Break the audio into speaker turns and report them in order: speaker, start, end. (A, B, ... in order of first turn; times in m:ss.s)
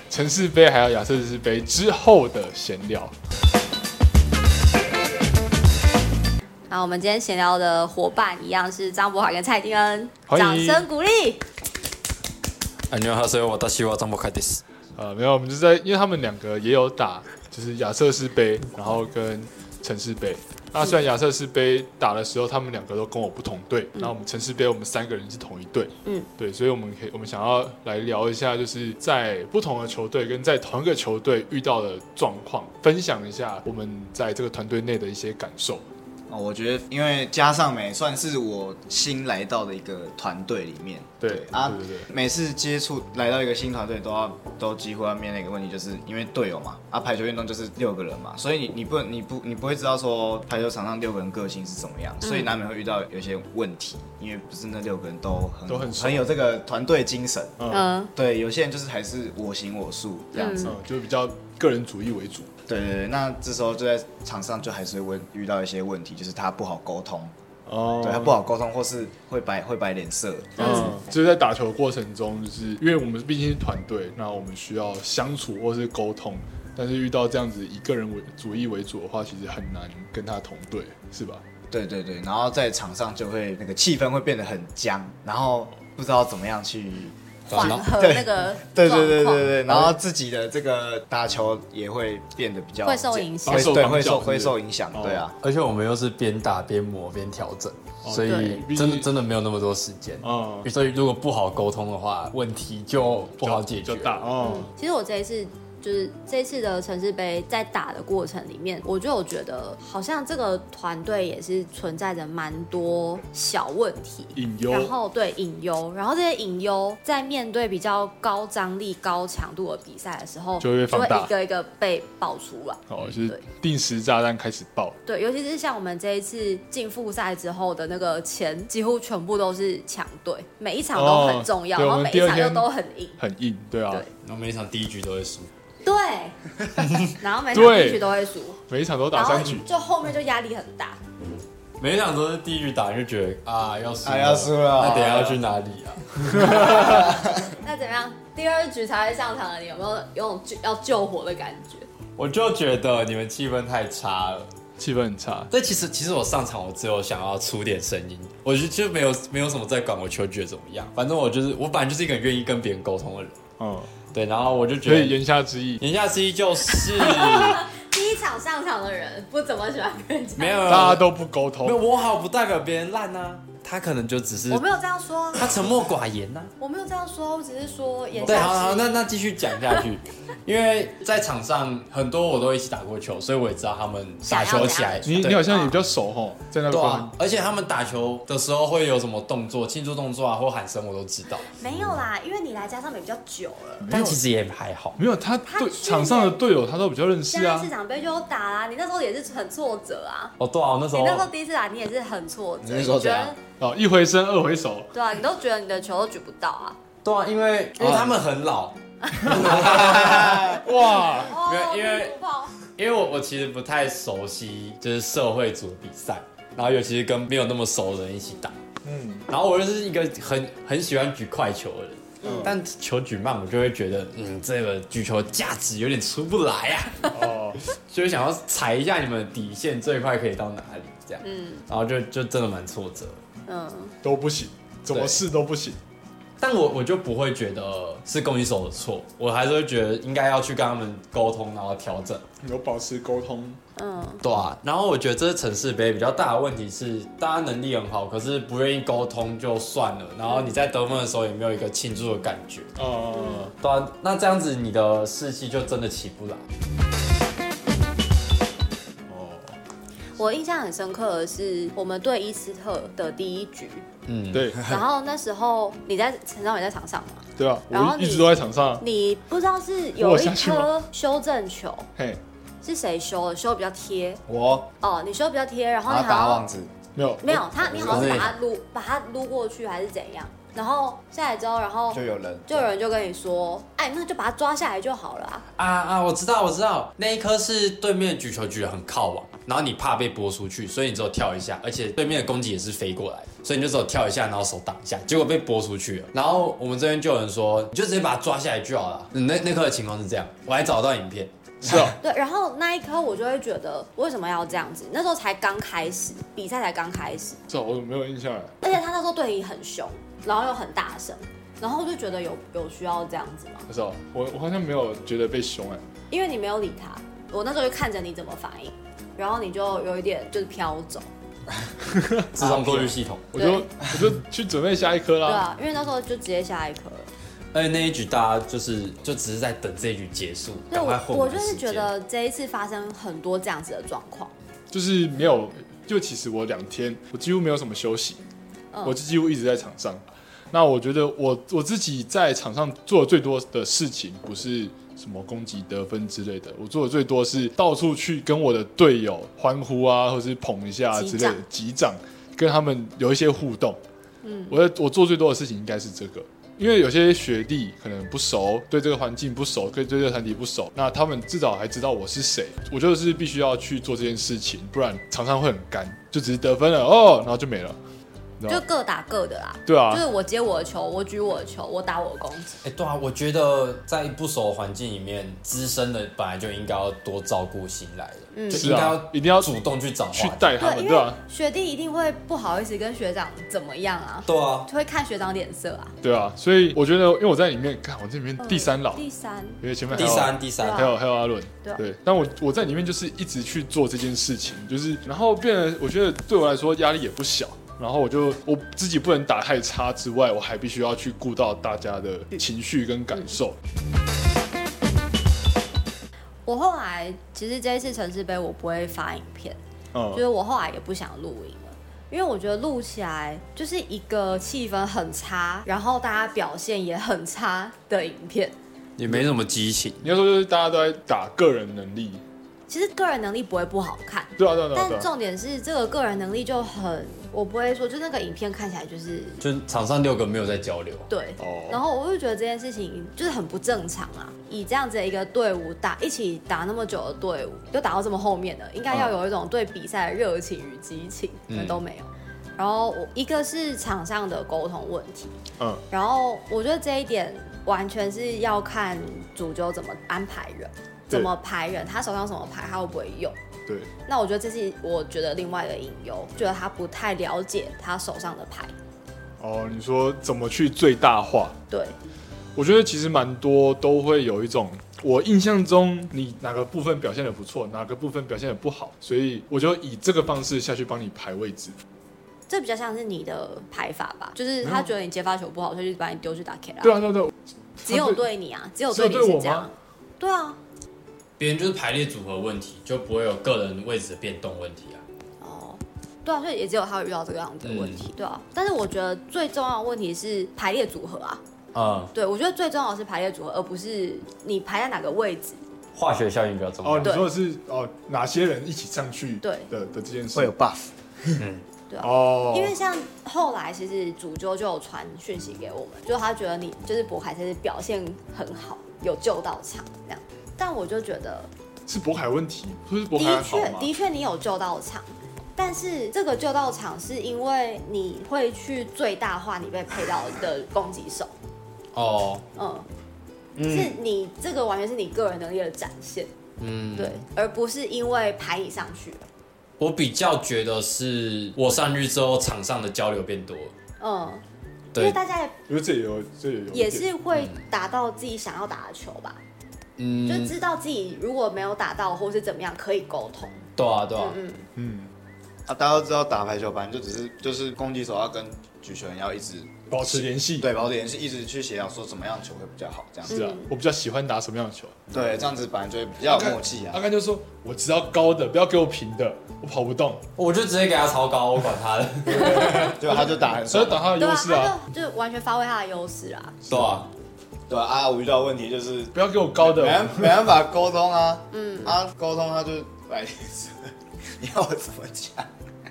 0:00.1-0:03.1 A
0:06.7-0:11.4 B
0:10.3-0:10.8 A
0:12.9-0:14.6 C
0:15.0-0:35.9 A
0:36.3-0:57.6 D
0:41.2-0:42.1 A
0:52.2-0:52.5 B
0:55.7-0:56.3 A
0:57.6-0:57.9 A
0:57.7-0:58.1 B
0:58.2-1:00.7 D
1:00.3-1:00.8 B
1:00.6-1:02.5 A
1:02.7-1:07.3 D
1:07.7-1:08.4 A
1:08.0-1:10.8 D
1:10.6-1:10.9 B
1:10.6-1:21.4 A
1:21.7-1:35.3 D
1:27.5-1:27.9 C
1:27.5-1:29.5 B
1:32.8-1:33.8 B
1:33.5-1:35.3 A
1:35.4-1:44.3 C
1:38.0-1:39.1 A
1:38.2-1:38.6 B
1:40.2-1:40.7 A
1:43.4-1:44.7 A
1:44.4-2:03.4 B
1:54.3-1:54.9 A
2:00.6-2:01.3 A
2:02.9-2:05.0 A
2:05.1-2:13.2 B
2:10.9-2:12.7 A
2:13.2-2:14.1 A
2:14.2-2:15.5 C
2:15.8-2:16.4 B
2:16.9-2:18.6 B
2:17.5-2:18.1 A
2:18.7-2:19.7 A
2:19.1-2:21.0 B
2:21.8-2:27.0 C
2:24.0-2:25.4 D
2:26.4-2:31.9 B
2:26.8-2:27.3 D
2:32.2-2:34.5 C
2:34.8-2:35.5 A
2:35.5-2:43.4 C
2:43.6-2:43.9 A
2:44.1-2:45.2 C
2:44.8-2:45.8 A
2:45.8-2:47.6 C
2:47.0-2:51.0 B
2:50.4-2:51.1 C
2:50.7-2:51.8 A
2:51.6-2:54.6 C
2:54.5-2:55.5 B
2:55.3-2:56.5 C
2:56.6-2:58.9 B
2:58.2-2:58.5 A
2:58.2-3:05.7 C
3:04.2-3:05.7 B
3:05.1-3:07.1 A
3:06.7-3:11.9 C
3:11.6-3:13.9 B
3:13.8-3:14.2 A
3:13.9-3:15.0 C
3:15.0-3:17.7 A
3:15.4-3:16.4 B
3:17.3-3:20.4 B
3:20.4-3:21.3 C
3:20.9-3:23.4 B
3:22.6-3:23.3 D
3:23.6-3:24.9 A
3:24.9-3:26.8 B
3:27.0-3:30.6 C
3:27.8-3:28.1 D
3:29.2-3:31.4 A
3:31.2-3:32.6 B
3:31.3-3:38.5 C
3:38.8-3:39.2 A
3:39.3-3:53.2 C
3:42.2-3:42.5 B
3:42.2-3:42.5 A
3:47.1-3:47.6 A
3:51.2-3:51.6 B
3:53.5-3:54.0 B
3:54.0-3:55.8 A
3:54.9-3:55.2 C
3:56.4-4:02.2 C
4:02.4-4:03.6 A
4:03.8-4:04.2 B
4:04.2-4:12.7 C
4:10.3-4:10.6 B
4:12.8-4:13.5 A
4:13.1-4:13.5 B
4:13.6-4:16.4 C
4:19.1-4:19.6 A
4:20.2-4:23.8 B
4:24.1-4:24.5 C
4:24.3-4:24.6 A
4:24.6-4:28.2 B
4:27.4-4:28.8 A
4:28.8-4:31.9 B
4:30.0-4:30.7 A
4:32.6-4:34.2 B
4:34.3-4:34.7 D
4:34.8-4:36.4 B
4:35.8-4:36.7 D
4:36.9-4:37.5 A
4:37.2-4:45.4 B
4:37.5-4:38.2 D
4:37.8-4:38.3 C
4:41.9-4:42.7 D
4:45.6-5:01.3 C
5:01.6-5:02.0 A
5:02.0-5:07.4 B
5:07.5-5:08.5 A
5:08.6-5:13.7 B
5:13.7-5:15.8 A
5:16.1-5:21.1 B
5:21.8-5:25.4 A
5:22.3-5:23.2 C
5:23.3-5:23.7 B
5:25.2-5:27.1 B
5:27.5-5:31.9 C
5:30.7-5:34.3 B
5:34.7-5:38.2 A
5:38.8-5:53.8 A
5:50.9-5:51.4 B
5:54.2-5:54.6 B
5:54.5-6:07.8 A
6:08.5-6:12.6 B
6:09.6-6:10.0 A
6:12.6-6:20.5 C
6:18.3-6:18.7 B
6:18.5-6:19.5 A
6:20.1-6:21.2 A
6:20.6-6:25.9 B
6:24.2-6:24.7 C
6:26.0-6:29.0 A
6:28.4-6:31.0 B
6:29.6-6:43.6 A
6:29.9-6:30.9 C
6:46.4-6:49.6 B
6:49.9-6:50.2 A
6:50.1-6:58.6 B
6:59.0-7:00.1 C
7:00.0-7:02.2 A
7:02.7-7:09.4 B
7:04.4-7:05.1 A
7:09.4-7:11.1 C
7:11.1-7:25.3 B
7:11.4-7:11.8 A
7:21.5-7:21.8 C
7:25.6-7:25.8 A
7:25.9-7:33.4 B
7:33.6-7:33.9 A
7:34.1-7:38.7 B
7:39.4-7:41.6 A
7:41.7-7:42.0 B
7:42.5-7:51.8 A
7:52.5-7:57.0 B
7:54.6-7:54.9 A
7:56.8-7:58.2 A
7:57.8-8:00.6 B
7:58.9-7:59.7 A
8:01.4-8:05.0 C
8:05.4-8:11.4 B
8:07.6-8:08.0 C
8:11.7-8:12.1 C
8:12.1-8:15.6 B
8:15.9-8:17.2 C
8:16.8-8:20.5 A
8:17.0-8:17.3 B
8:19.4-8:19.7 B
8:20.3-8:21.4 D
8:21.4-8:21.6 C
8:21.9-8:31.5 B
8:22.0-8:22.8 A
8:31.9-8:33.9 A
8:33.1-8:41.3 B
8:41.9-8:42.4 C
8:42.6-8:42.9 B
8:43.6-8:43.9 D
8:43.6-8:46.3 B
8:46.6-8:47.2 C
8:47.0-8:49.2 B
8:49.8-8:53.7 C
8:54.0-8:54.4 B
8:55.0-8:55.5 B
8:55.7-8:57.1 A
8:56.7-8:59.4 B
8:57.3-8:57.6 C
9:00.0-9:00.5 C
9:00.2-9:03.6 B
9:03.8-9:04.4 C
9:04.2-9:04.7 B
9:04.8-9:05.1 A
9:05.6-9:13.5 D
9:09.9-9:10.7 A
9:13.3-9:15.0 A
9:13.3-9:13.7 B
9:15.1-9:17.0 D
9:16.2-9:20.2 A
9:20.4-9:23.0 C
9:22.3-9:24.8 A
9:22.8-9:24.1 D
9:24.2-9:26.6 B
9:26.6-9:27.1 A
9:26.7-9:27.1 C
9:27.7-9:35.5 D
9:29.1-9:30.4 A
9:31.5-9:32.0 B